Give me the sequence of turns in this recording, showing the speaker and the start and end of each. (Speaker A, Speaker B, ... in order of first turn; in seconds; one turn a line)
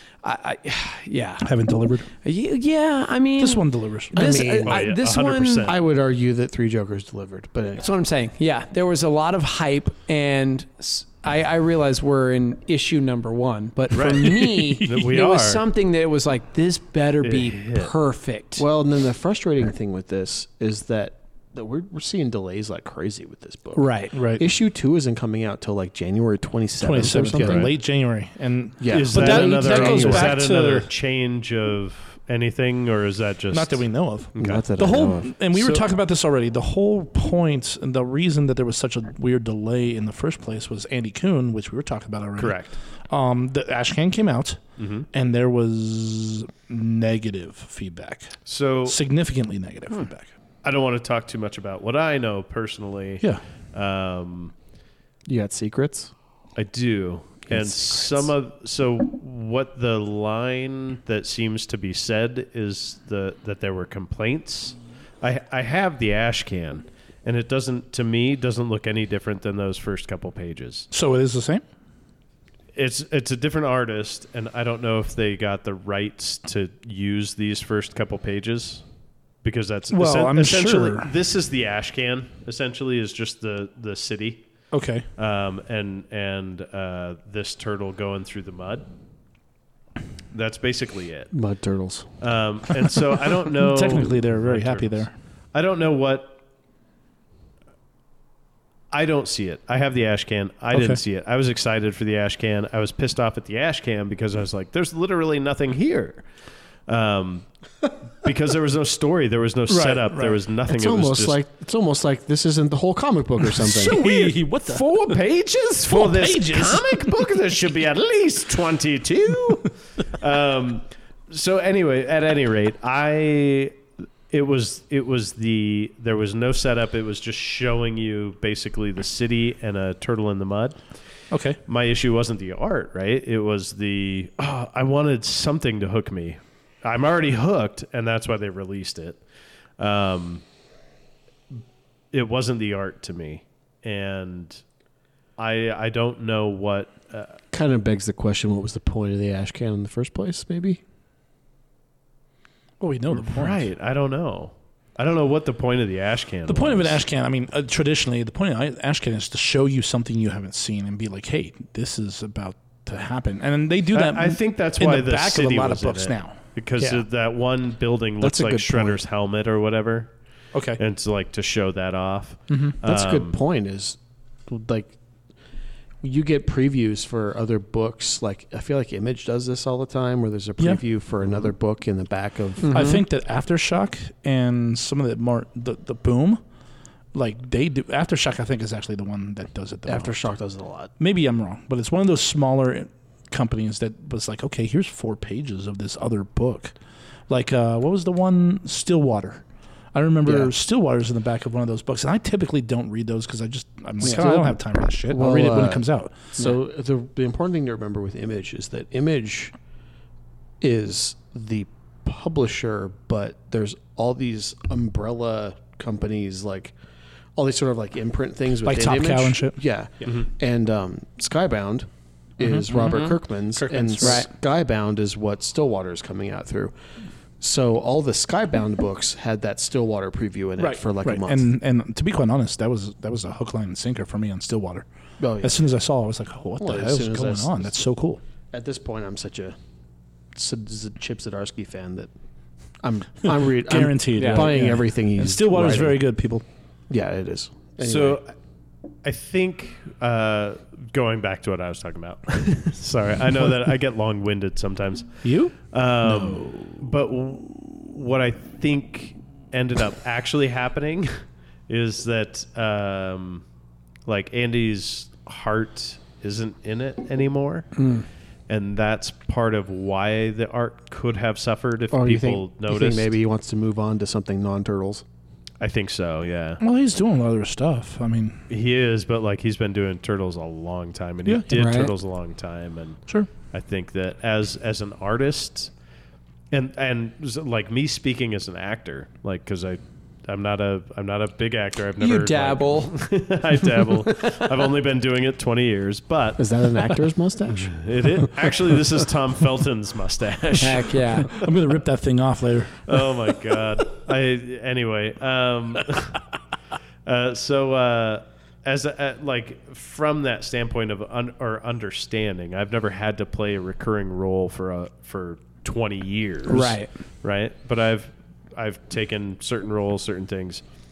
Speaker A: 0.2-1.4
Speaker B: 1.4-2.1
Speaker A: 2.2-5.7
Speaker B: 3.4-4.1
Speaker C: 4.1-4.9
Speaker D: 4.6-5.8
Speaker C: 5.7-7.8
Speaker A: 7.8-18.6
Speaker D: 13.9-15.6
Speaker D: 17.2-17.9
Speaker C: 18.6-27.7
Speaker A: 23.7-24.1
Speaker B: 24.1-24.4
Speaker B: 26.8-30.9
Speaker D: 27.3-27.7
Speaker C: 28.8-30.4
Speaker D: 28.9-33.8
Speaker B: 33.5-44.6
Speaker D: 34.3-34.6
Speaker C: 34.4-35.4
Speaker D: 35.5-35.8
Speaker D: 42.4-42.8
Speaker D: 44.8-45.0
Speaker B: 45.1-50.3
Speaker D: 48.5-49.0
Speaker D: 50.6-54.5
Speaker C: 55.2-56.1
Speaker D: 56.5-70.9
Speaker C: 57.5-58.3
Speaker B: 70.9-71.6
Speaker D: 72.7-78.8
Speaker D: 79.4-84.5
Speaker B: 79.9-81.1
Speaker B: 84.7-85.0
Speaker D: 85.2-88.8
Speaker D: 90.3-91.3
Speaker C: 91.3-92.1
Speaker D: 92.2-96.4
Speaker B: 93.5-95.1
Speaker D: 98.9-106.2
Speaker B: 100.7-101.0
Speaker D: 106.9-107.5
Speaker D: 108.1-111.4
Speaker B: 109.7-110.4
Speaker C: 110.7-114.0
Speaker B: 113.5-115.2
Speaker D: 113.9-123.8
Speaker B: 115.9-117.2
Speaker D: 124.3-130.8
Speaker B: 131.3-131.6
Speaker D: 131.7-139.2
Speaker D: 139.8-140.4
Speaker D: 142.1-144.6
Speaker D: 145.4-147.4
Speaker C: 147.5-150.8
Speaker B: 152.8-153.7
Speaker D: 153.1-157.0
Speaker B: 156.4-167.0
Speaker D: 163.9-170.1
Speaker C: 168.2-169.0
Speaker B: 170.5-170.8
Speaker D: 170.8-173.4
Speaker B: 172.5-172.8
Speaker C: 172.8-174.9
Speaker C: 176.0-182.8
Speaker A: 182.6-183.0
Speaker B: 182.7-186.4
Speaker B: 187.1-190.2
Speaker C: 189.9-190.9
Speaker B: 191.0-196.7
Speaker B: 197.3-206.3
Speaker C: 200.2-200.5
Speaker C: 204.0-205.8
Speaker C: 206.4-209.5
Speaker C: 210.6-216.7
Speaker C: 217.3-226.7
Speaker B: 218.6-219.6
Speaker B: 222.4-224.2
Speaker A: 222.8-223.1
Speaker A: 224.0-224.3
Speaker C: 227.4-231.5
Speaker B: 230.6-234.8
Speaker C: 235.2-235.6
Speaker B: 235.4-238.2
Speaker C: 236.6-237.8
Speaker C: 238.5-239.6
Speaker C: 240.3-242.1
Speaker C: 242.8-246.0
Speaker B: 243.4-246.4
Speaker A: 244.2-244.5
Speaker C: 246.9-248.2
Speaker D: 247.8-248.3
Speaker D: 249.0-255.1
Speaker B: 255.2-255.5
Speaker D: 255.6-261.1
Speaker D: 261.7-263.4
Speaker D: 264.1-267.7
Speaker A: 267.8-268.0
Speaker D: 268.5-273.1
Speaker C: 271.9-275.0
Speaker D: 275.6-276.6
Speaker B: 276.6-278.4
Speaker D: 278.5-285.7
Speaker A: 281.5-281.9
Speaker D: 286.5-301.5
Speaker A: 292.0-292.9
Speaker A: 294.0-294.4
Speaker C: 296.4-298.3
Speaker A: 300.6-301.3
Speaker B: 301.3-303.0
Speaker D: 302.9-306.2
Speaker D: 307.0-320.6
Speaker A: 316.5-316.9